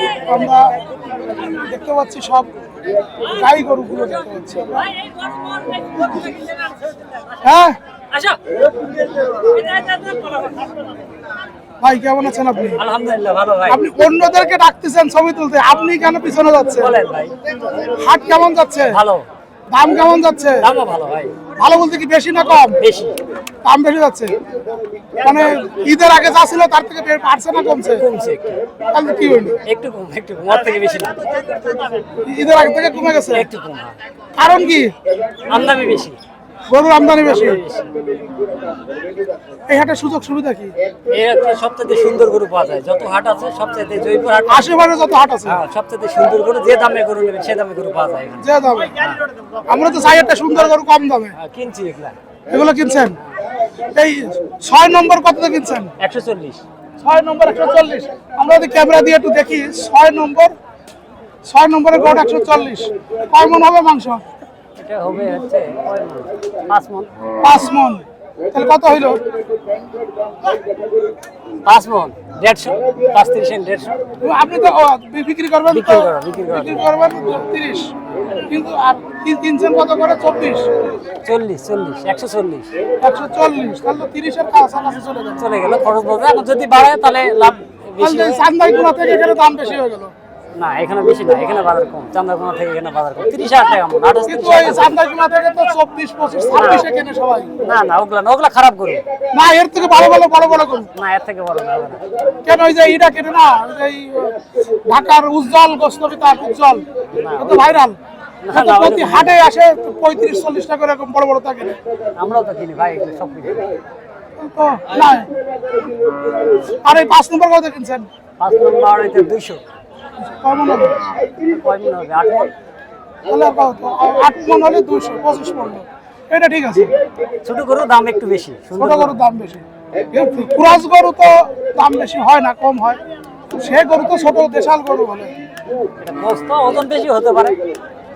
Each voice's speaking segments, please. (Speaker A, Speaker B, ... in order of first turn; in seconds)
Speaker A: 0.2-0.8, 1.4-2.5, 3.3-4.9, 7.4-7.8, 11.8-12.8, 13.7-16.9, 18.0-19.0, 19.7-20.7, 21.6-22.8, 23.6-24.3, 25.2-28.1, 28.9-29.6, 32.2-33.5, 34.4-34.9, 36.7-37.6, 39.7-40.7, 44.5-45.6, 48.4-48.9, 49.7-51.4, 52.5-53.2, 53.9-55.9, 57.0-60.5, 61.5-64.2, 67.4-69.2, 74.2-77.9, 78.5-80.7, 83.0-85.5, 88.0-90.1, 94.3-97.5, 99.3-100.9, 102.4-108.0, 108.5-111.8, 114.4-115.3, 116.8-118.1, 120.2-121.0, 123.3-126.9, 128.8-135.3
Speaker B: 5.5-6.5, 8.1-8.4, 9.2-10.2, 12.8-13.8, 16.8-17.3, 18.9-19.3, 20.6-21.4, 22.8-23.2, 27.9-28.6, 29.6-31.8, 33.3-34.0, 35.5-36.2, 37.1-37.9, 41.1-44.7, 45.5-48.5, 51.4-52.1, 56.0-56.6, 64.8-67.1, 71.7-74.0, 75.7-76.9, 81.2-82.7, 85.4-88.5, 90.5-95.0, 96.5-96.9, 97.6-99.0, 101.0-102.0, 107.1-107.5, 108.5-109.4, 112.2-113.8, 118.4-119.6, 121.3-122.5, 127.4-129.1, 136.0-137.6